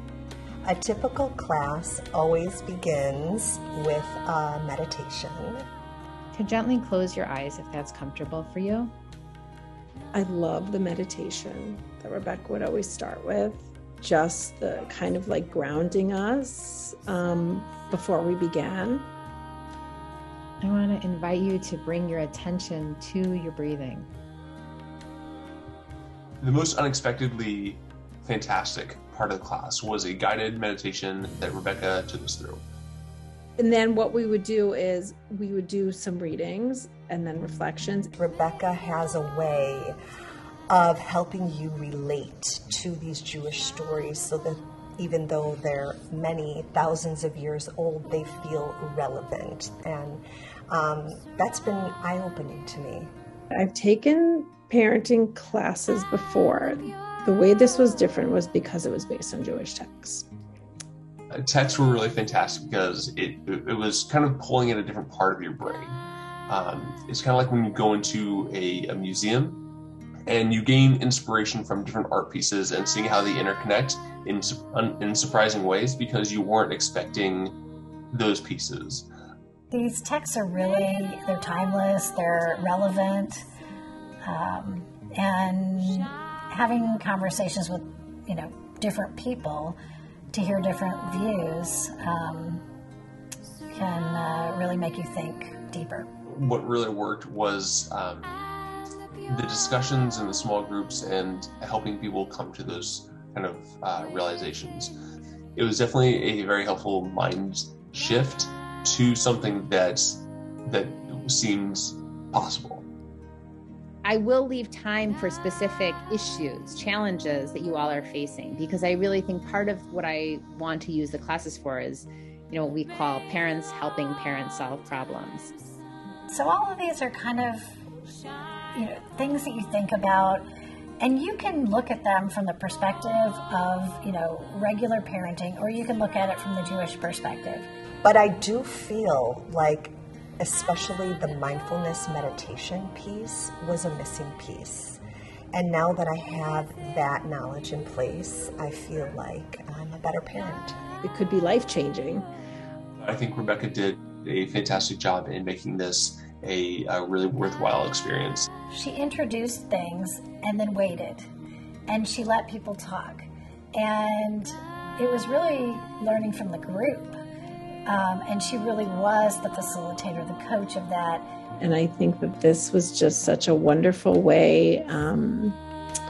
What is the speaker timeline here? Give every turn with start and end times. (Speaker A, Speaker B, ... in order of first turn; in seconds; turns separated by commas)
Speaker A: 0.6-5.6, Speaker B: 6.3-8.9, Speaker C: 10.1-19.1, Speaker B: 20.6-24.1, Speaker D: 26.4-32.6, Speaker C: 33.6-38.1, Speaker A: 38.2-40.0, Speaker A: 40.7-53.1, Speaker C: 53.5-60.2, Speaker D: 61.3-69.6, Speaker D: 70.3-77.5, Speaker D: 78.1-79.0, Speaker E: 79.7-83.4, Speaker E: 84.2-89.8, Speaker E: 90.3-92.6, Speaker E: 93.7-96.1, Speaker D: 96.3-98.3, Speaker D: 99.3-104.9, Speaker D: 105.5-112.8, Speaker B: 114.0-125.5, Speaker E: 126.3-127.8, Speaker E: 128.7-130.4, Speaker E: 131.0-137.7, Speaker A: 138.0-145.0, Speaker A: 145.5-150.8, Speaker C: 151.0-152.3, Speaker D: 153.0-158.5, Speaker E: 158.7-161.3, Speaker E: 161.9-167.2, Speaker E: 167.9-171.2, Speaker C: 171.6-175.6